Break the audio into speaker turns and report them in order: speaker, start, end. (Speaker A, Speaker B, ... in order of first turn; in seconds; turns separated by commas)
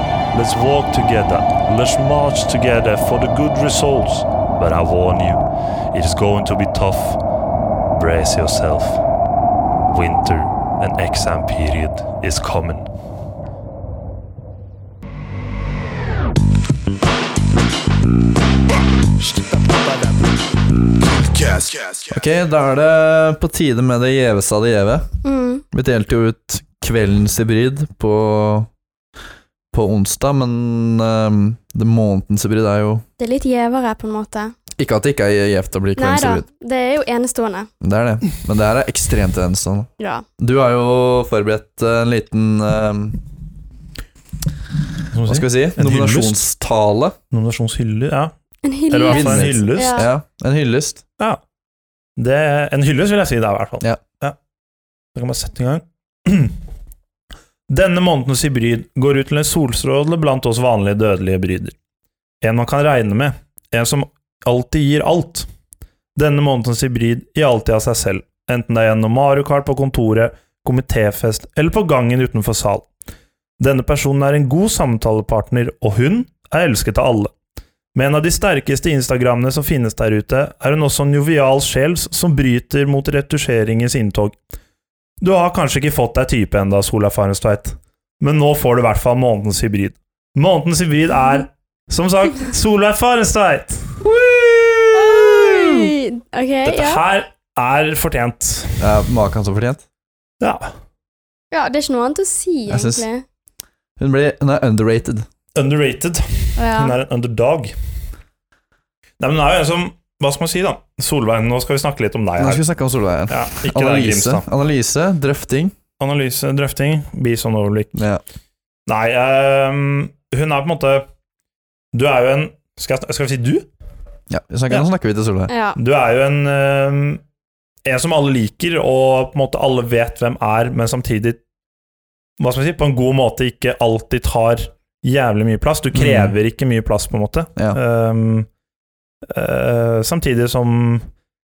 Speaker A: 0.3-7.2, Speaker A: 7.9-9.0, Speaker A: 9.9-12.9, Speaker B: 22.1-25.1, Speaker C: 25.2-25.6, Speaker B: 25.7-28.7, Speaker B: 29.7-33.0, Speaker C: 33.2-34.5, Speaker B: 34.8-36.5, Speaker C: 36.0-37.7, Speaker B: 37.8-43.2, Speaker C: 40.0-40.2, Speaker D: 45.1-46.4, Speaker B: 45.3-47.2, Speaker D: 47.3-48.3, Speaker C: 48.6-50.1, Speaker D: 48.9-50.1, Speaker B: 49.1-51.0, Speaker D: 52.2-54.3, Speaker D: 55.1-56.6, Speaker D: 57.7-61.7, Speaker D: 62.4-65.5, Speaker D: 66.2-72.9, Speaker D: 73.6-77.3, Speaker D: 77.9-84.4, Speaker D: 85.2-93.9, Speaker B: 94.0-95.7, Speaker C: 94.9-97.0, Speaker D: 96.6-98.9, Speaker B: 98.8-99.8, Speaker D: 100.4-100.7, Speaker C: 101.5-103.2, Speaker B: 102.7-103.0, Speaker B: 104.0-105.3, Speaker D: 105.5-107.7, Speaker C: 106.5-106.9, Speaker D: 109.2-112.6, Speaker B: 112.4-115.7, Speaker D: 113.3-114.4, Speaker D: 116.0-118.0, Speaker B: 117.9-118.2, Speaker D: 118.9-121.1, Speaker D: 121.9-123.7, Speaker B: 124.3-125.5, Speaker C: 125.5-125.8, Speaker D: 125.8-127.2, Speaker D: 127.8-131.4, Speaker D: 132.4-138.5, Speaker B: 135.9-136.3, Speaker D: 139.3-141.1